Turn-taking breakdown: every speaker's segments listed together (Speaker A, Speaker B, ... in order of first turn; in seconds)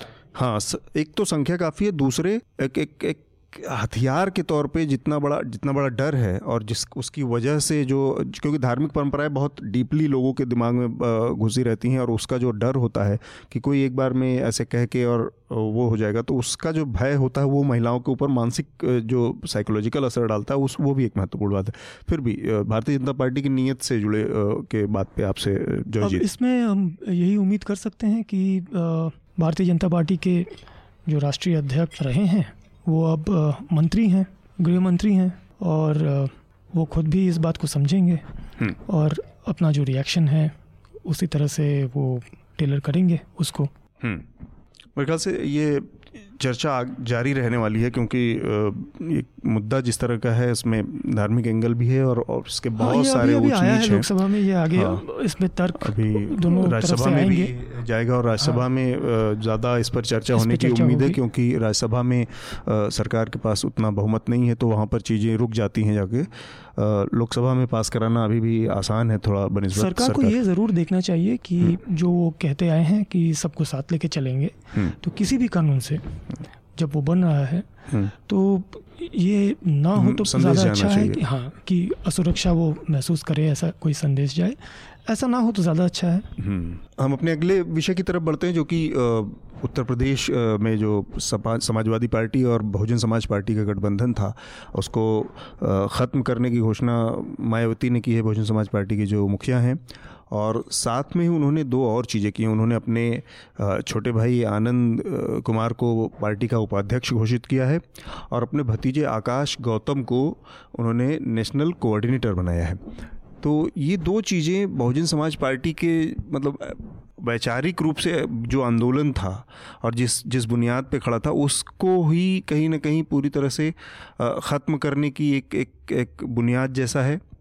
Speaker A: 0.3-26.3, 44.0-44.3, 45.0-54.1, 54.7-55.0, 55.8-70.4, 79.9-81.2, 86.4-112.8, 113.4-127.2
Speaker B: 26.0-43.7, 52.8-57.5, 60.3-61.2, 69.7-76.2, 76.8-86.3